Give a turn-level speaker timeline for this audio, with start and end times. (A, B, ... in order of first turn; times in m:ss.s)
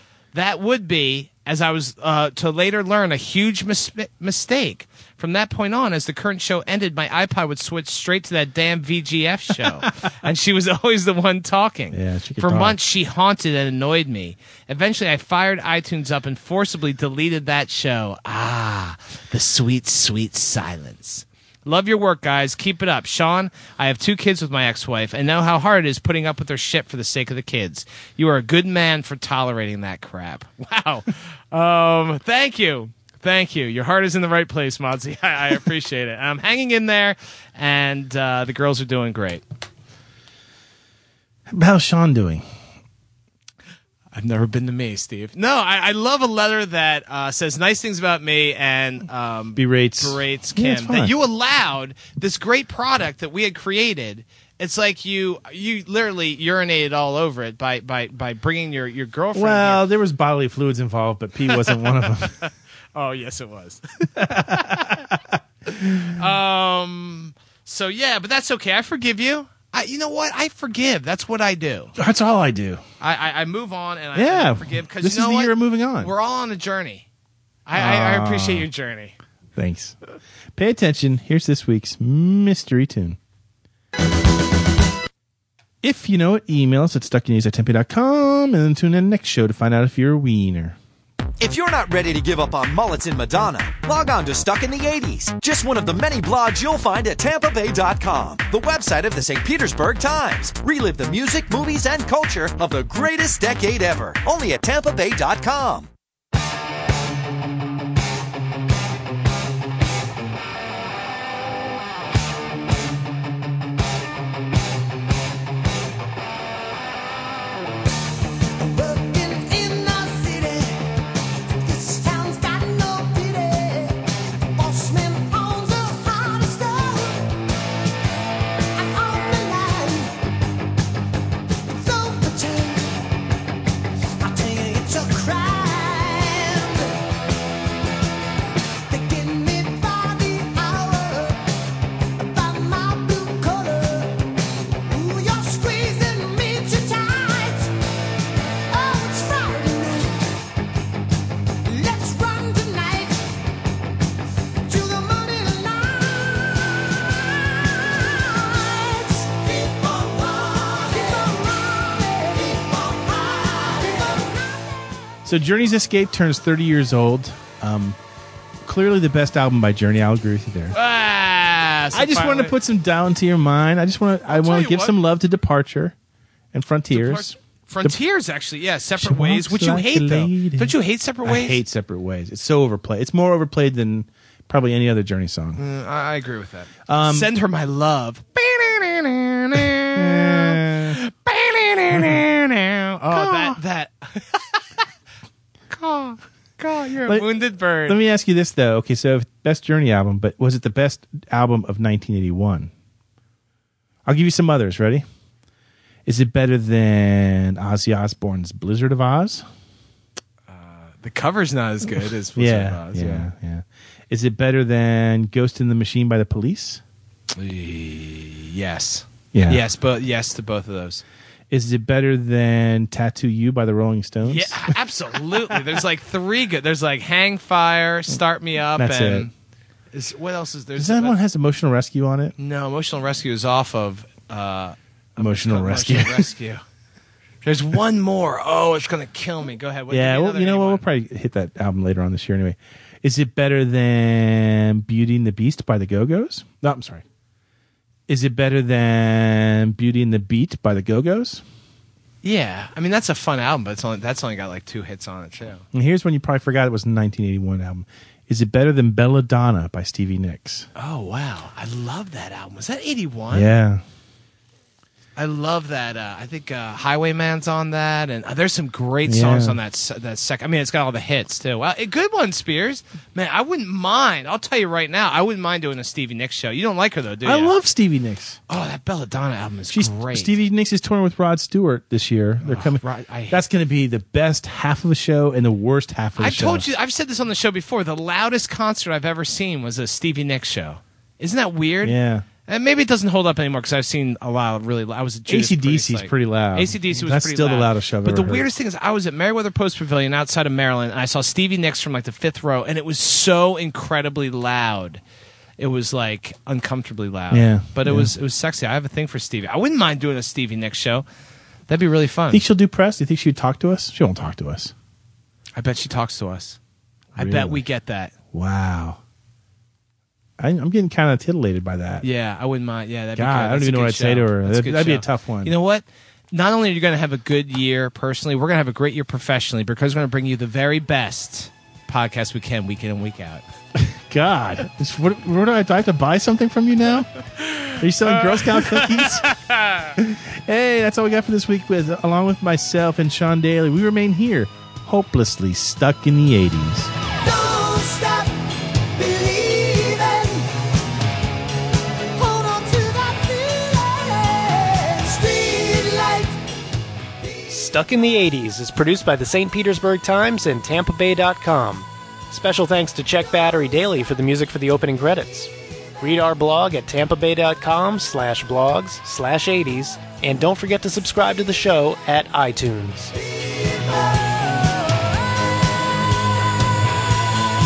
0:00.3-0:39.4 A
0:11.9-0:12.8 B
0:41.5-0:42.4 B
0:44.1-0:59.8 A
0:49.6-0:51.1 B
0:59.3-1:02.3 B
1:01.5-1:05.0 A
1:04.2-1:05.2 B
1:05.7-1:11.9 A
1:12.0-1:12.8 B
1:13.0-1:17.0 A
1:14.1-1:16.1 B
1:17.6-1:19.1 A
1:17.7-1:18.7 B
1:19.6-1:20.0 B
1:20.6-1:23.2 B
1:25.8-1:30.8 B
1:31.4-1:45.9 C
1:58.6-2:01.0 D
2:01.6-2:07.3 D
2:08.7-2:10.2 D
2:11.7-2:13.0 D
2:14.2-2:17.1 D
2:18.9-2:21.5 D
2:22.2-2:24.3 D
2:24.8-2:27.7 D
2:28.7-2:30.3 D
2:31.6-2:33.3 D
2:34.6-2:44.8 D
2:45.2-2:48.0 B
2:48.6-2:50.7 B
2:50.7-2:52.5 A
2:51.9-2:55.9 B
2:54.3-2:55.0 A
2:56.5-2:58.0 B
2:56.9-3:01.6 A
2:59.0-3:00.7 B
3:01.2-3:05.6 B
3:05.6-3:14.6 A
3:06.9-3:07.3 B
3:09.8-3:11.0 B
3:11.9-3:12.2 B
3:13.1-3:13.6 B
3:15.7-3:18.0 A
3:17.8-3:22.7 B
3:24.0-3:25.0 B
3:26.0-3:29.4 B
3:30.5-3:33.3 A
3:32.4-3:36.8 B
3:37.3-3:41.0 A
3:39.3-3:39.6 B
3:41.5-3:44.7 B
3:44.2-3:49.3 A
3:45.3-3:45.6 B
3:48.8-3:49.3 B
3:49.9-3:51.2 A
3:50.8-3:52.3 B
3:52.4-3:56.6 A
3:55.2-3:56.3 B
3:57.4-4:00.8 A
3:59.9-4:07.0 B
4:08.1-4:11.4 B
4:12.2-4:15.6 A
4:15.7-4:20.7 B
4:20.8-4:23.5 A
4:23.3-4:23.8 B
4:25.2-4:37.5 A
4:29.1-4:29.6 B
4:37.2-4:38.4 B
4:38.5-4:40.3 A
4:39.7-4:46.7 B
4:42.4-4:43.4 A
4:46.2-4:52.0 A
4:51.8-4:52.2 B
4:52.5-5:05.0 A
4:55.3-4:58.4 B
5:05.6-5:11.0 A
5:07.3-5:08.1 B
5:11.7-5:12.4 A
5:12.3-5:14.7 B
5:15.6-5:16.6 A
5:17.2-5:17.6 B
5:17.2-5:18.1 A
5:18.3-5:19.0 B
5:20.4-5:22.0 B
5:22.0-5:33.4 A
5:23.2-5:25.5 B
5:33.8-5:37.1 B
5:37.4-5:40.0 A
5:37.8-5:39.3 B
5:40.0-5:46.9 B
5:47.2-5:48.4 D
5:48.9-5:50.5 D
5:52.1-5:56.4 D
5:57.5-6:13.1 E
6:13.1-6:15.2 D